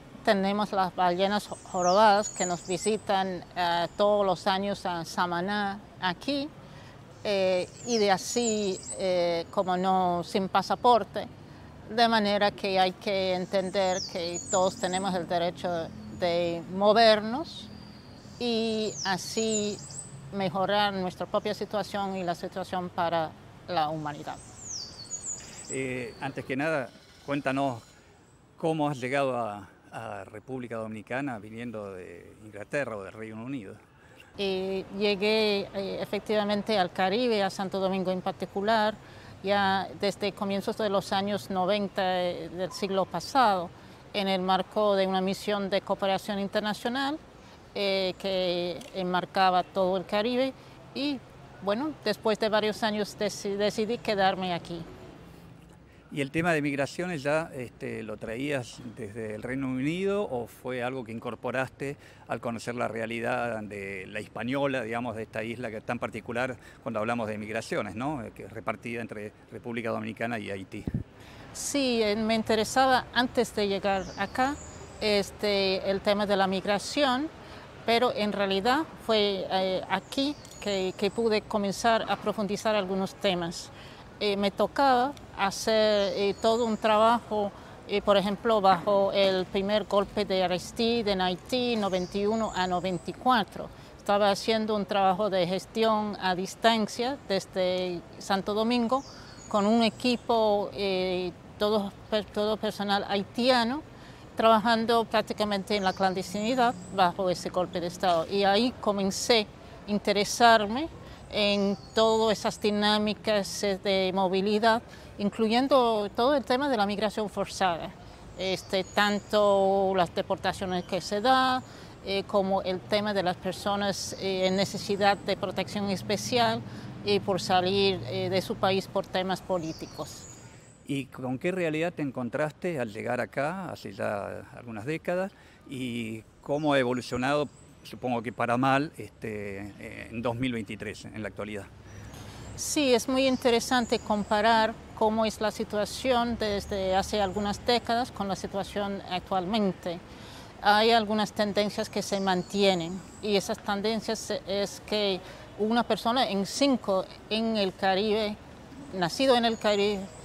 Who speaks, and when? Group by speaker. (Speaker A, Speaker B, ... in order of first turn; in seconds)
Speaker A: 0.2-6.5, 7.2-11.3, 11.9-17.7, 18.4-19.8, 20.3-24.4, 34.4-47.2, 47.7-54.9, 71.5-77.3, 77.9-103.8, 104.4-130.3, 142.6-150.0, 150.6-158.4, 158.9-160.1
Speaker B: 25.7-27.8, 28.6-33.8, 56.1-70.8, 130.9-141.7